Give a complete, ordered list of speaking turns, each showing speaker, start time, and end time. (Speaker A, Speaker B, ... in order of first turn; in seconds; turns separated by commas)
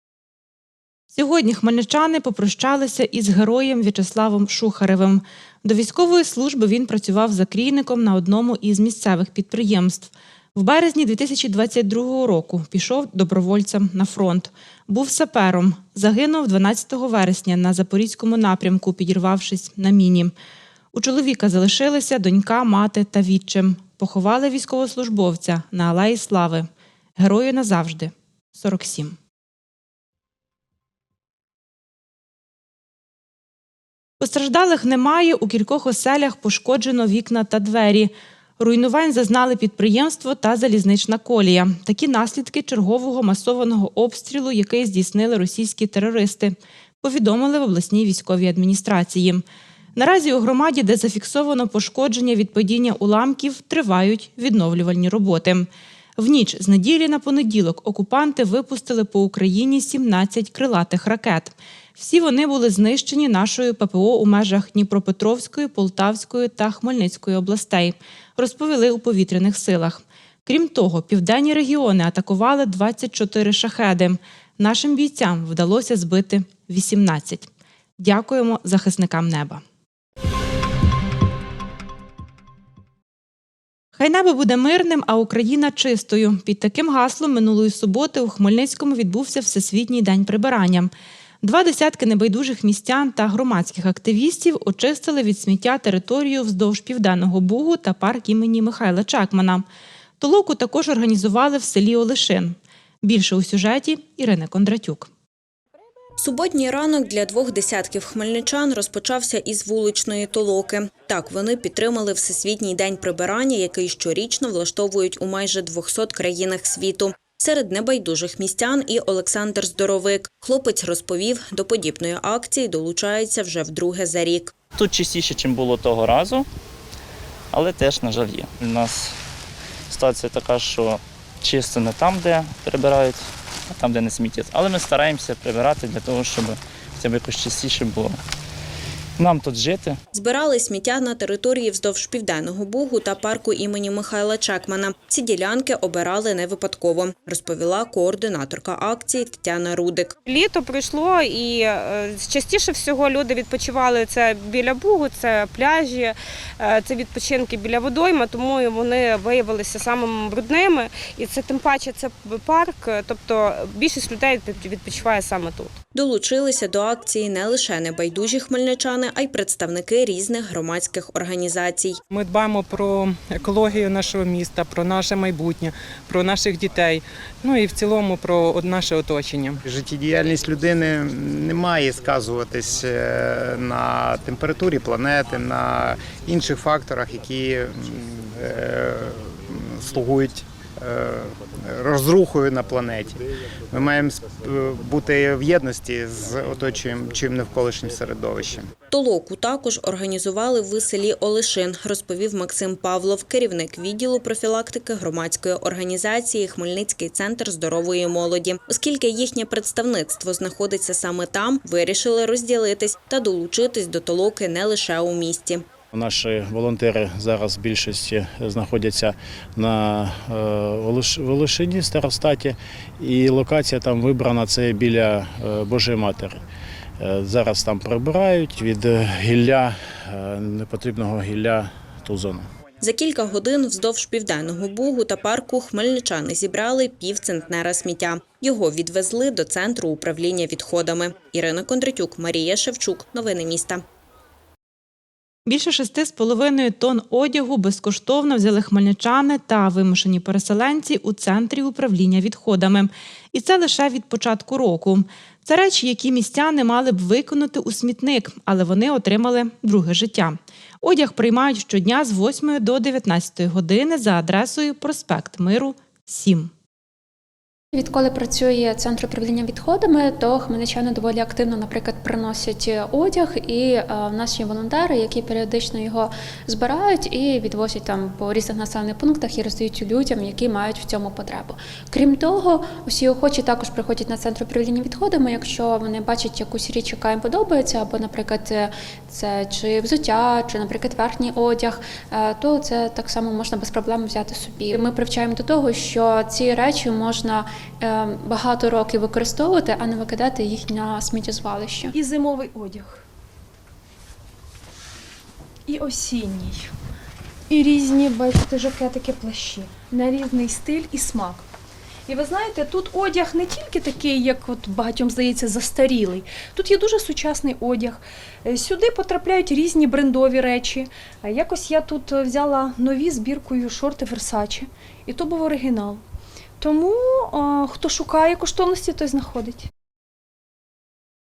Speaker A: 1.1-20.3, Speaker A: 20.9-26.7, Speaker A: 27.2-29.2, Speaker A: 34.2-49.4, Speaker A: 50.0-79.6, Speaker A: 84.0-90.9, Speaker A: 91.4-99.7, Speaker A: 100.2-105.1, Speaker B: 106.2-124.5, Speaker C: 124.8-126.5, Speaker C: 127.5-129.2, Speaker C: 129.9-138.2, Speaker C: 139.2-140.0, Speaker B: 140.1-150.2, Speaker D: 150.2-165.8, Speaker B: 165.9-172.0, Speaker E: 172.1-179.6, Speaker F: 179.6-198.7, Speaker B: 198.9-215.6, Speaker G: 215.9-226.4, Speaker G: 227.0-232.5, Speaker B: 232.8-243.8, Speaker A: 245.5-266.5, Speaker H: 267.7-302.0, Speaker I: 301.9-303.0, Speaker I: 305.7-306.7, Speaker I: 307.5-311.4, Speaker I: 312.1-326.0, Speaker I: 326.6-329.7